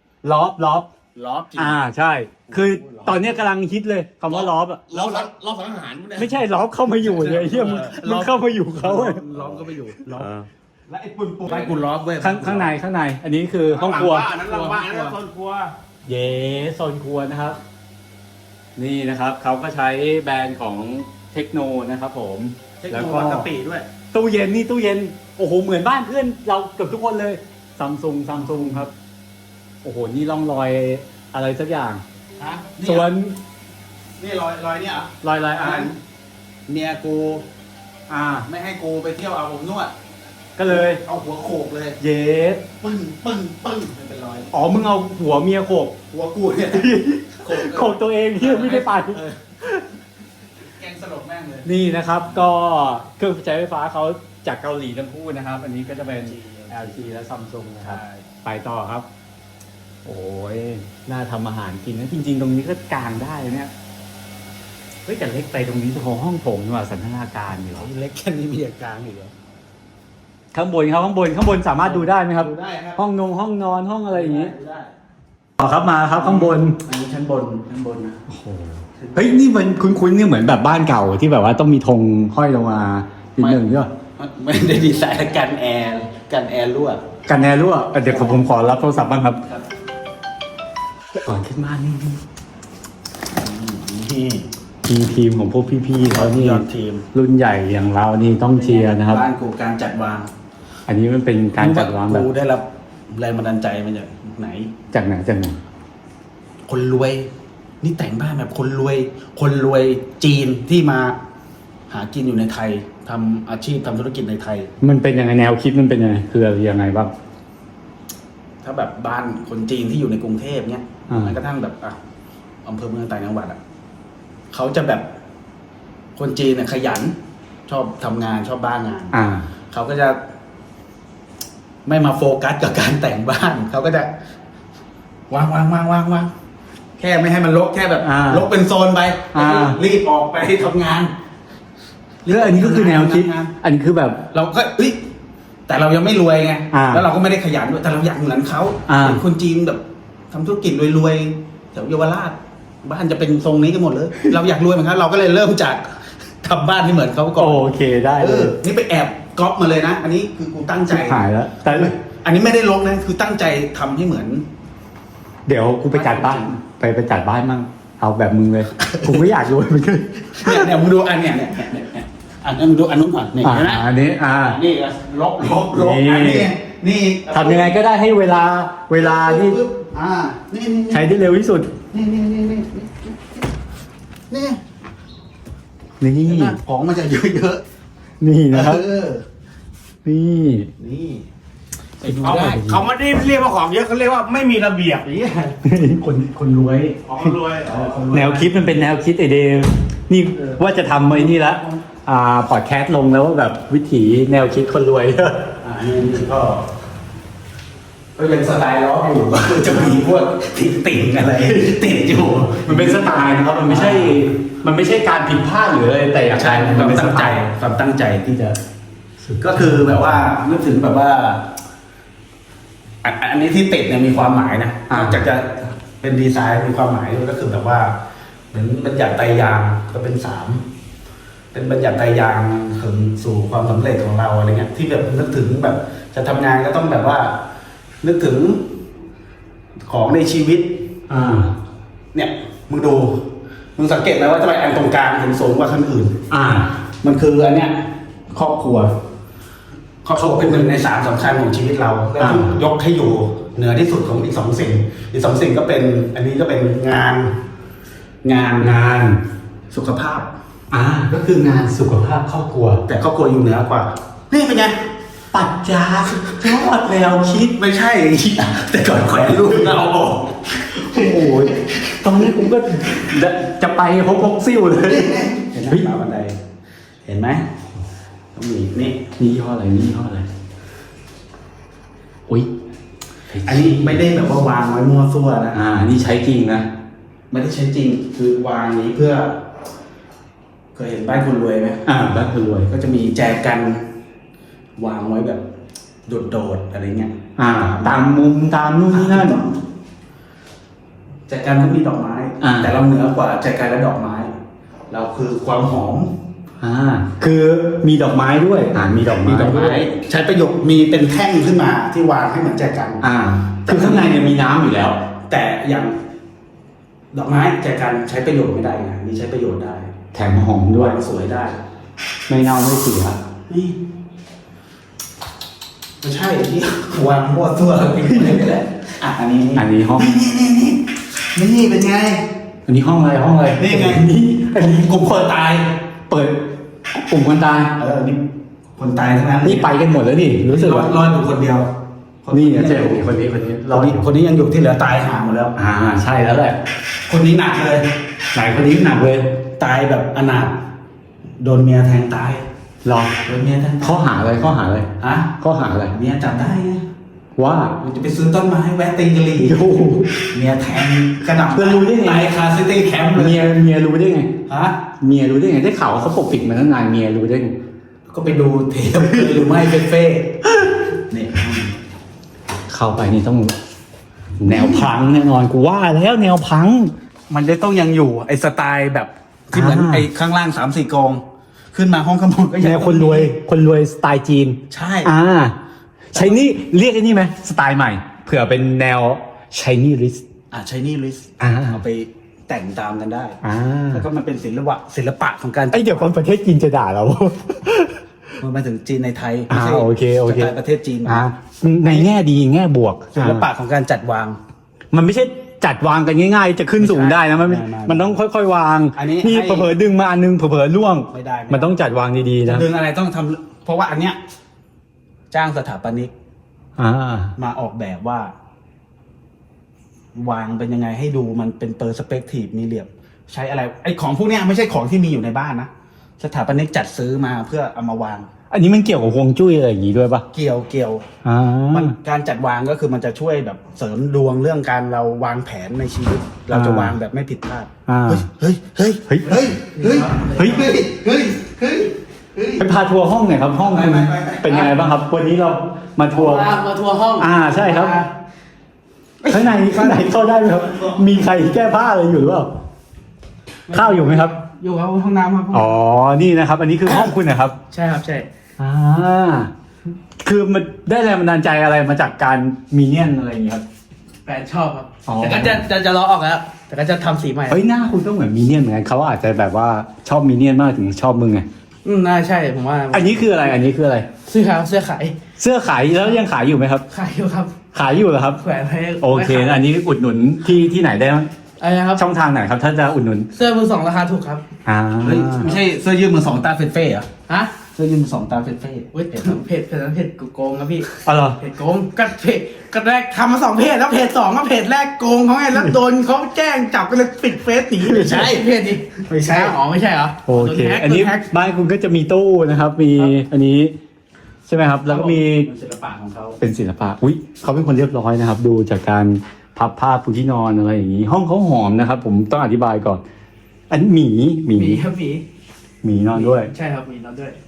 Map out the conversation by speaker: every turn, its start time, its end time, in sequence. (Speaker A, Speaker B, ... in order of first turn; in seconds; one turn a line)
Speaker A: 0.2-0.9
Speaker B: 1.1-1.8
Speaker A: 1.6-4.8
Speaker B: 2.5-3.3
Speaker C: 4.3-6.4
Speaker B: 4.9-5.3
Speaker A: 6.2-9.2
Speaker C: 7.0-8.0
Speaker B: 7.1-10.3
Speaker C: 10.1-10.5
Speaker B: 10.9-12.7
Speaker C: 11.5-11.7
Speaker A: 12.2-14.3
Speaker C: 13.7-15.7
Speaker B: 14.0-15.1
Speaker A: 16.1-17.6
Speaker A: 18.8-23.5
Speaker B: 22.8-23.9
Speaker A: 24.1-28.9
Speaker A: 29.8-32.0
Speaker B: 32.4-33.1
Speaker A: 32.8-33.4
Speaker B: 34.2-35.9
Speaker A: 35.2-36.0
Speaker B: 36.7-37.5
Speaker A: 38.1-38.5
Speaker B: 38.5-39.9
Speaker A: 40.6-41.0
Speaker B: 40.7-42.0
Speaker A: 42.0-42.6
Speaker B: 42.8-44.5
Speaker A: 44.5-46.0
Speaker B: 46.1-49.4
Speaker A: 46.7-49.9
Speaker B: 50.6-51.7
Speaker A: 51.6-59.1
Speaker B: 56.1-57.0
Speaker B: 57.8-58.3
Speaker A: 60.0-63.7
Speaker A: 65.0-67.9
Speaker B: 67.7-69.3
Speaker A: 70.5-74.5
Speaker B: 71.8-73.0
Speaker B: 74.1-74.9
Speaker A: 75.6-76.8
Speaker B: 76.1-78.2
Speaker A: 78.3-83.9
Speaker B: 79.0-79.3
Speaker B: 83.4-87.0
Speaker A: 87.3-89.4
Speaker B: 88.0-88.7
Speaker B: 89.3-89.6
Speaker A: 91.1-92.2
Speaker B: 93.3-94.5
Speaker A: 94.8-99.2
Speaker B: 96.0-97.1
Speaker B: 98.5-100.3
Speaker A: 100.9-102.3
Speaker B: 101.6-104.7
Speaker A: 104.9-105.6
Speaker B: 106.7-107.3
Speaker B: 107.8-111.2
Speaker B: 111.9-114.7
Speaker A: 114.8-117.1
Speaker B: 118.6-122.0
Speaker A: 121.1-121.4
Speaker B: 122.6-123.6
Speaker B: 124.5-125.1
Speaker B: 126.1-129.2
Speaker A: 129.1-129.5
Speaker B: 129.7-130.2
Speaker B: 131.8-134.1
Speaker B: 135.3-136.3
Speaker B: 137.0-141.1
Speaker A: 138.0-138.5
Speaker A: 139.3-139.8
Speaker B: 142.2-143.5
Speaker A: 142.3-144.2
Speaker B: 144.3-145.0
Speaker B: 145.7-164.4
Speaker A: 146.7-147.1
Speaker A: 148.9-149.2
Speaker A: 157.4-158.5
Speaker A: 160.9-161.9
Speaker A: 165.5-170.7
Speaker B: 165.9-166.5
Speaker B: 168.8-169.3
Speaker B: 170.3-177.7
Speaker A: 173.4-174.6
Speaker A: 175.5-176.5
Speaker A: 177.3-179.6
Speaker B: 178.9-181.2
Speaker A: 180.9-181.8
Speaker B: 181.9-183.4
Speaker B: 184.3-184.6
Speaker A: 186.0-186.6
Speaker B: 186.2-187.6
Speaker A: 188.2-188.8
Speaker B: 188.5-189.2
Speaker A: 190.0-190.7
Speaker B: 190.8-191.3
Speaker B: 192.0-192.8
Speaker A: 192.1-192.8
Speaker C: 192.2-195.6
Speaker A: 195.6-196.0
Speaker B: 195.9-198.6
Speaker C: 197.1-198.0
Speaker A: 198.1-205.5
Speaker B: 201.1-201.8
Speaker B: 205.6-206.7
Speaker B: 208.2-214.3
Speaker A: 212.6-217.4
Speaker B: 216.3-218.6
Speaker A: 219.3-219.9
Speaker B: 219.4-221.5
Speaker B: 223.0-228.0
Speaker A: 224.9-225.2
Speaker B: 228.5-230.7
Speaker B: 231.5-237.4
Speaker B: 238.0-238.7
Speaker B: 239.8-240.8
Speaker A: 241.1-241.5
Speaker B: 242.1-246.2
Speaker A: 246.3-246.7
Speaker B: 247.0-249.0
Speaker B: 250.0-257.4
Speaker A: 250.1-250.6
Speaker A: 252.2-252.5
Speaker B: 258.2-258.8
Speaker A: 258.6-259.2
Speaker B: 259.7-260.3
Speaker A: 260.7-262.8
Speaker B: 262.9-264.8
Speaker A: 265.3-267.6
Speaker B: 267.6-272.1
Speaker A: 270.7-275.9
Speaker B: 274.8-276.4
Speaker B: 277.0-277.5
Speaker B: 278.3-279.1
Speaker A: 279.2-280.3
Speaker A: 283.3-284.0
Speaker B: 283.4-285.6
Speaker A: 285.5-286.7
Speaker B: 287.3-289.4
Speaker B: 290.7-291.9
Speaker A: 291.9-292.7
Speaker B: 292.7-293.9
Speaker B: 294.8-295.4
Speaker B: 296.1-298.0
Speaker A: 297.4-299.4
Speaker B: 298.9-299.6
Speaker B: 301.3-304.3
Speaker A: 302.4-302.8
Speaker B: 304.9-306.2
Speaker A: 306.6-309.9
Speaker B: 308.8-313.0
Speaker A: 313.0-315.1
Speaker B: 313.6-314.2
Speaker B: 315.2-316.0
Speaker B: 317.1-319.9
Speaker A: 320.1-321.0
Speaker B: 320.8-321.6
Speaker A: 322.3-323.2
Speaker B: 323.5-323.8
Speaker B: 326.0-332.3
Speaker A: 329.5-330.1
Speaker A: 332.7-335.0
Speaker B: 333.6-335.9
Speaker A: 336.1-337.8
Speaker B: 337.8-339.7
Speaker A: 339.4-340.9
Speaker B: 340.5-341.7
Speaker B: 342.2-343.1
Speaker A: 342.3-344.0
Speaker B: 343.7-345.6
Speaker A: 345.6-346.6
Speaker B: 347.1-347.9
Speaker A: 348.3-349.4
Speaker B: 349.5-350.6
Speaker B: 351.4-352.4
Speaker A: 352.8-353.2
Speaker B: 353.2-354.0
Speaker A: 353.8-355.9
Speaker B: 355.0-355.3
Speaker B: 355.9-356.9
Speaker A: 357.4-357.8
Speaker B: 357.8-363.5
Speaker A: 359.4-360.2
Speaker A: 361.5-362.3
Speaker A: 363.1-364.4
Speaker B: 364.4-364.8
Speaker A: 365.0-367.6
Speaker B: 368.1-370.4
Speaker B: 371.0-371.8
Speaker A: 372.7-373.6
Speaker A: 374.4-376.9
Speaker B: 374.4-374.9
Speaker B: 377.3-383.3
Speaker A: 379.5-380.1
Speaker A: 382.6-385.6
Speaker B: 384.7-385.1
Speaker B: 386.1-386.4
Speaker A: 386.1-390.2
Speaker B: 390.5-393.4
Speaker A: 391.4-391.8
Speaker A: 393.4-394.0
Speaker B: 393.9-396.0
Speaker A: 395.7-398.0
Speaker B: 398.4-401.2
Speaker A: 399.5-400.5
Speaker A: 401.0-403.4
Speaker B: 401.8-402.1
Speaker B: 403.1-404.4
Speaker A: 404.9-412.6
Speaker B: 406.8-408.2
Speaker B: 408.9-409.7
Speaker B: 411.1-411.7
Speaker B: 412.4-414.2
Speaker B: 415.3-416.1
Speaker A: 416.8-417.3
Speaker B: 417.4-418.3
Speaker B: 420.1-428.3
Speaker A: 428.5-430.2
Speaker B: 430.3-431.1
Speaker A: 431.2-432.0
Speaker B: 431.7-442.6
Speaker A: 436.5-437.0
Speaker A: 437.9-439.4
Speaker D: 439.7-440.6
Speaker A: 440.4-440.6
Speaker A: 442.6-446.6
Speaker B: 443.6-444.7
Speaker D: 446.1-448.1
Speaker A: 447.2-448.0
Speaker D: 449.2-450.1
Speaker A: 449.3-452.5
Speaker B: 450.4-451.2
Speaker D: 453.7-455.7
Speaker A: 453.7-454.3
Speaker A: 455.5-457.6
Speaker D: 456.9-457.1
Speaker D: 457.7-458.3
Speaker A: 458.6-459.5
Speaker A: 460.2-463.6
Speaker D: 464.2-467.6
Speaker A: 465.1-465.6
Speaker A: 467.5-471.4
Speaker D: 471.8-473.6
Speaker A: 472.9-474.1
Speaker D: 474.2-475.2
Speaker A: 475.4-476.8
Speaker D: 476.9-477.5
Speaker A: 477.7-478.4
Speaker D: 478.4-479.6
Speaker A: 479.0-481.3
Speaker D: 481.6-482.1
Speaker A: 481.9-483.3
Speaker D: 483.3-484.4
Speaker A: 484.6-485.5
Speaker B: 485.0-487.1
Speaker D: 487.3-487.5
Speaker B: 487.6-489.2
Speaker D: 488.9-501.2
Speaker A: 491.0-491.4
Speaker A: 497.8-498.2
Speaker B: 497.9-498.5
Speaker B: 499.1-499.6
Speaker A: 500.2-503.7
Speaker A: 504.4-505.5
Speaker B: 504.9-506.4
Speaker A: 506.4-513.0
Speaker A: 513.7-514.8
Speaker D: 514.5-515.2
Speaker A: 515.8-516.5
Speaker D: 516.1-517.4